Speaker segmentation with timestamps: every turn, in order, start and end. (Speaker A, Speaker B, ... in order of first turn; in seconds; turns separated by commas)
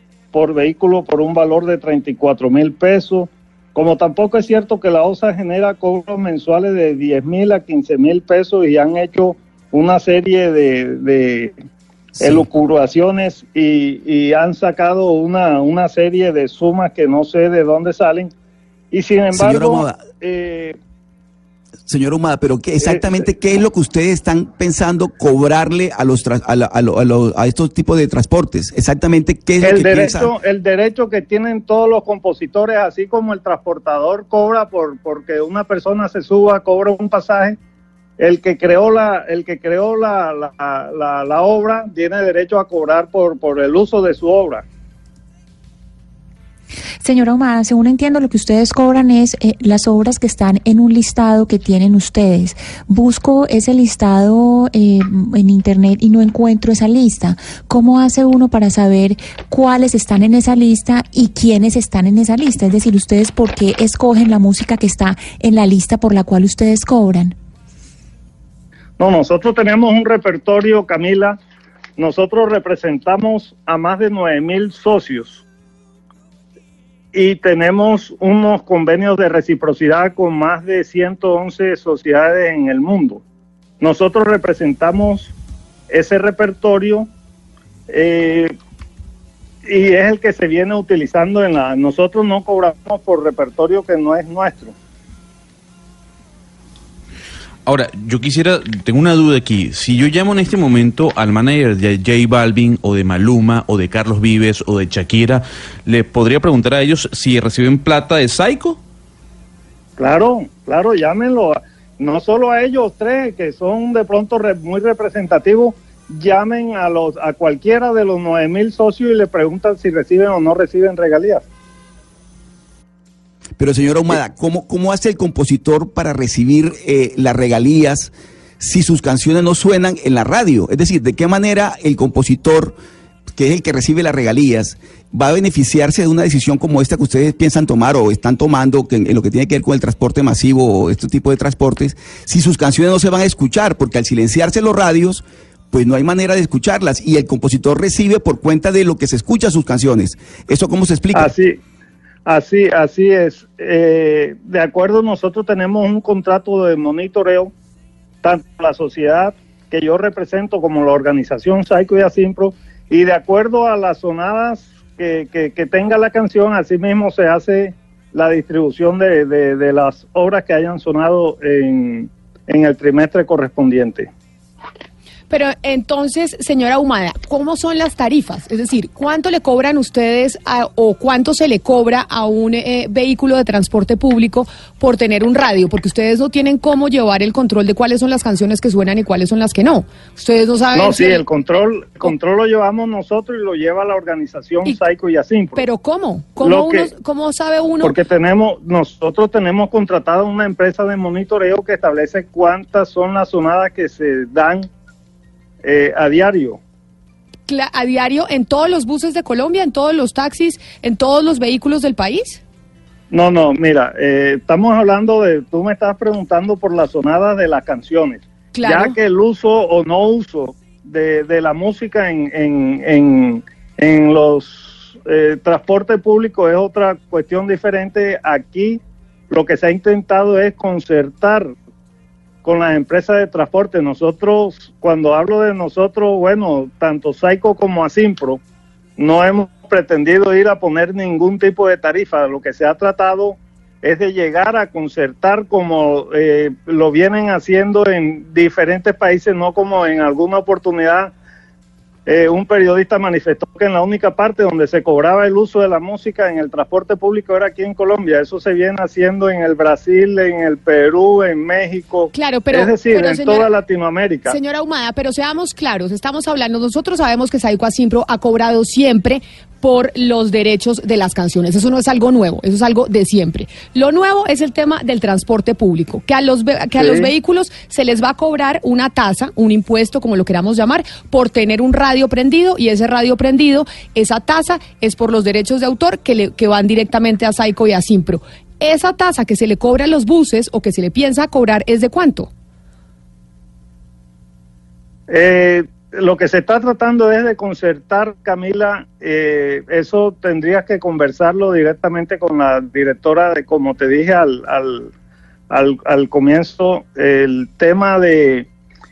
Speaker A: 0.3-11.5, Speaker B: 12.2-12.4, Speaker A: 12.2-18.3, Speaker A: 18.9-20.8, Speaker B: 19.3-20.0, Speaker B: 21.9-30.3, Speaker A: 22.8-23.2, Speaker A: 29.6-37.6, Speaker A: 38.2-44.6, Speaker C: 47.0-67.3, Speaker A: 69.0-71.4, Speaker A: 72.0-75.4, Speaker A: 77.1-83.2, Speaker A: 83.8-85.3, Speaker A: 85.9-87.1, Speaker A: 87.9-88.5, Speaker A: 89.6-94.7, Speaker D: 97.7-108.8, Speaker A: 110.0-121.4, Speaker B: 123.6-132.8, Speaker B: 133.3-151.3, Speaker A: 151.1-151.6, Speaker A: 152.2-157.5, Speaker A: 158.2-174.1, Speaker E: 175.3-191.2, Speaker A: 190.7-195.6, Speaker E: 195.6-197.9, Speaker A: 196.4-196.9, Speaker A: 197.8-204.7, Speaker A: 205.6-206.6, Speaker E: 207.5-212.4, Speaker A: 213.1-231.5, Speaker E: 218.5-218.9, Speaker A: 232.4-238.4, Speaker A: 239.0-251.1, Speaker A: 252.1-264.4, Speaker E: 262.1-263.5, Speaker E: 264.2-292.3, Speaker A: 276.8-277.1, Speaker A: 295.1-304.9, Speaker A: 305.5-308.5